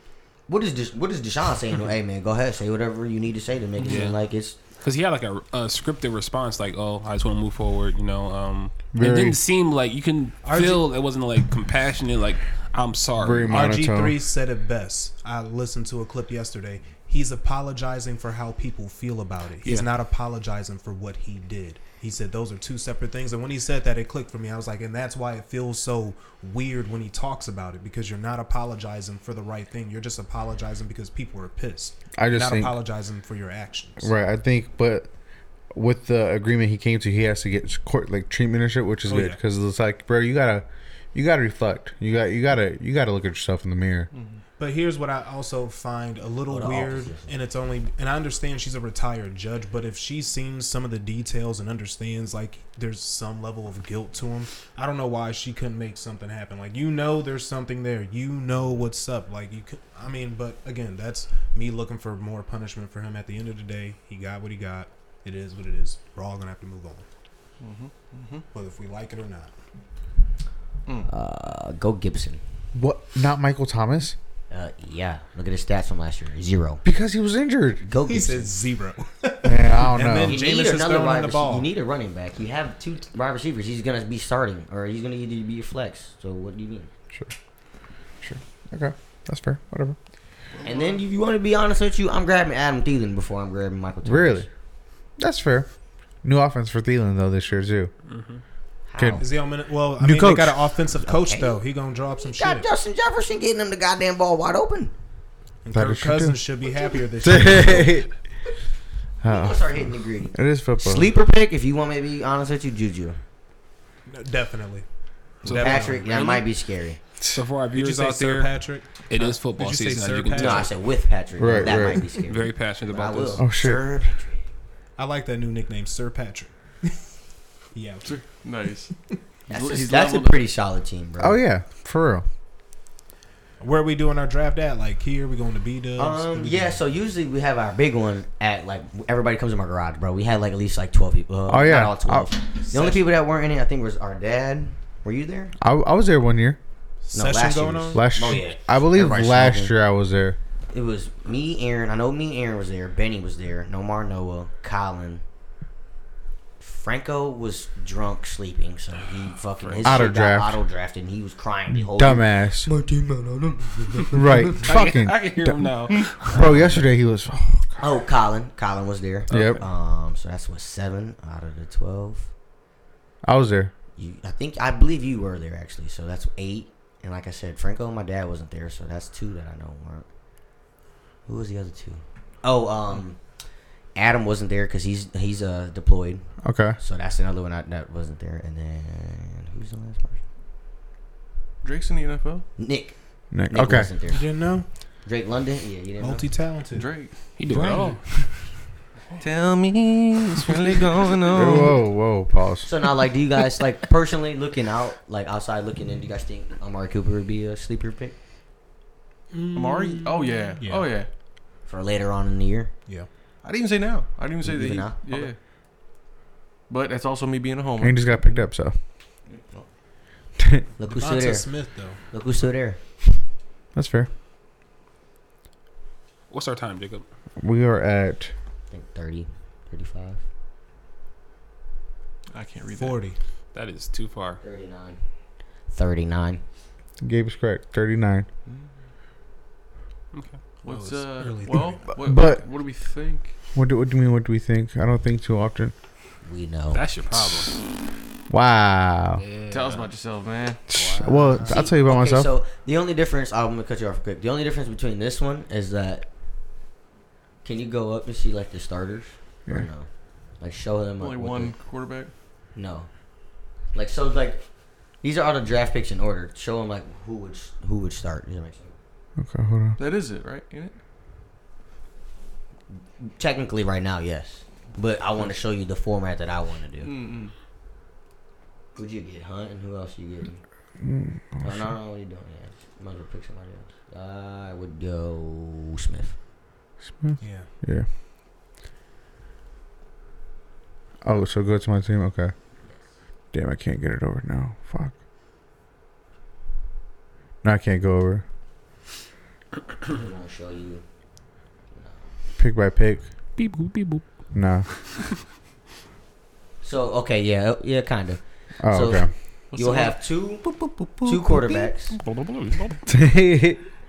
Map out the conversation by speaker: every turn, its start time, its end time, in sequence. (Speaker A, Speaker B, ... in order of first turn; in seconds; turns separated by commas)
Speaker A: 0.5-4.6, Speaker B: 3.8-4.2, Speaker B: 4.8-13.7, Speaker C: 8.9-9.4, Speaker D: 10.4-10.9, Speaker C: 13.2-14.2, Speaker D: 13.5-34.1, Speaker B: 19.6-19.9, Speaker C: 32.1-32.8, Speaker C: 34.0-35.1, Speaker C: 35.7-44.1, Speaker D: 39.1-39.4, Speaker E: 44.1-44.4, Speaker D: 44.6-67.0, Speaker A: 46.5-47.3, Speaker E: 67.6-68.4, Speaker D: 68.5-69.5, Speaker A: 71.0-72.4, Speaker C: 72.7-74.2, Speaker A: 74.5-76.8, Speaker C: 76.8-77.8, Speaker A: 77.8-78.5, Speaker D: 78.0-81.7, Speaker C: 79.4-80.4, Speaker A: 80.2-86.9, Speaker C: 88.2-90.0, Speaker D: 90.5-91.0, Speaker A: 90.6-94.5, Speaker C: 94.0-94.5, Speaker C: 95.2-95.7, Speaker C: 96.2-97.9, Speaker B: 98.1-98.4, Speaker A: 98.9-99.3, Speaker C: 99.0-99.2, Speaker D: 99.2-102.7, Speaker C: 100.0-100.6, Speaker A: 101.0-101.6, Speaker A: 102.2-104.9, Speaker D: 105.6-108.0, Speaker C: 105.7-106.5, Speaker C: 107.2-108.1, Speaker C: 109.2-111.1, Speaker A: 109.2-113.2, Speaker D: 114.0-114.8, Speaker D: 115.4-116.1, Speaker B: 115.4-115.9, Speaker A: 115.5-117.0, Speaker B: 117.3-120.7, Speaker D: 117.7-120.7, Speaker A: 120.3-124.5, Speaker C: 121.4-122.0, Speaker B: 122.2-123.4, Speaker C: 123.4-123.8, Speaker D: 125.0-126.5, Speaker D: 127.7-128.2, Speaker E: 128.0-128.9, Speaker E: 129.5-130.4, Speaker A: 129.5-131.4, Speaker C: 131.2-132.2, Speaker D: 133.6-136.8, Speaker A: 135.9-145.5, Speaker C: 141.5-142.3, Speaker D: 142.6-143.0, Speaker C: 145.6-146.6, Speaker D: 147.1-148.0, Speaker A: 147.1-149.7, Speaker C: 147.9-150.4, Speaker A: 150.7-155.2, Speaker A: 156.6-162.3, Speaker B: 159.6-160.1, Speaker C: 159.8-160.6, Speaker C: 161.7-162.7, Speaker C: 164.1-167.7, Speaker B: 164.5-166.6, Speaker A: 166.3-166.8, Speaker A: 167.8-172.3, Speaker C: 169.3-169.6, Speaker B: 169.3-169.6, Speaker C: 173.2-173.7, Speaker A: 173.9-180.1, Speaker A: 181.2-183.2, Speaker A: 183.9-190.2, Speaker C: 186.4-186.8, Speaker E: 191.6-192.4, Speaker A: 192.6-194.3, Speaker C: 193.3-193.9, Speaker D: 194.1-194.7, Speaker A: 195.0-196.2, Speaker D: 196.0-198.5, Speaker E: 196.7-197.1, Speaker B: 197.4-198.0, Speaker E: 199.2-201.8, Speaker C: 201.3-202.7, Speaker A: 202.6-208.1, Speaker D: 209.3-210.9, Speaker E: 209.5-211.1, Speaker A: 211.7-212.7, Speaker E: 213.4-215.3, Speaker A: 214.4-215.3, Speaker E: 216.7-218.0, Speaker C: 217.8-218.7, Speaker C: 220.4-220.6, Speaker A: 220.8-222.8, Speaker D: 220.8-222.0, Speaker C: 223.7-224.1, Speaker B: 226.3-227.0, Speaker C: 227.4-228.3, Speaker A: 228.7-230.2, Speaker E: 232.3-233.0, Speaker D: 232.7-233.2, Speaker B: 233.5-234.4, Speaker A: 234.4-235.0, Speaker A: 235.7-236.4, Speaker C: 237.0-238.3, Speaker B: 240.1-240.4, Speaker E: 240.6-243.3, Speaker D: 240.6-241.8, Speaker C: 242.0-242.4, Speaker C: 243.5-245.7, Speaker A: 246.2-246.8, Speaker B: 246.7-247.6, Speaker C: 248.3-249.2, Speaker B: 249.2-249.9, Speaker E: 249.5-250.6, Speaker C: 250.7-252.3, Speaker B: 250.7-251.5, Speaker A: 251.3-256.1, Speaker A: 257.4-259.9, Speaker A: 260.4-261.5, Speaker E: 261.0-262.1, Speaker A: 262.5-262.9, Speaker A: 263.7-264.4, Speaker A: 265.0-268.7, Speaker C: 269.2-269.8, Speaker E: 269.8-270.7, Speaker A: 273.0-276.9, Speaker E: 276.8-277.3, Speaker A: 278.7-280.4, Speaker C: 280.8-281.7, Speaker A: 281.4-286.2, Speaker C: 287.0-287.9, Speaker D: 287.2-287.5, Speaker C: 291.0-292.3, Speaker C: 293.3-294.9, Speaker C: 297.4-298.2, Speaker A: 299.9-300.8, Speaker A: 301.7-302.1, Speaker C: 302.4-303.1, Speaker B: 303.4-304.3, Speaker C: 304.3-304.7, Speaker A: 306.6-310.5, Speaker C: 308.6-309.1, Speaker E: 309.5-310.0, Speaker E: 310.5-311.1, Speaker A: 311.0-312.0, Speaker B: 311.9-312.8, Speaker C: 312.9-313.6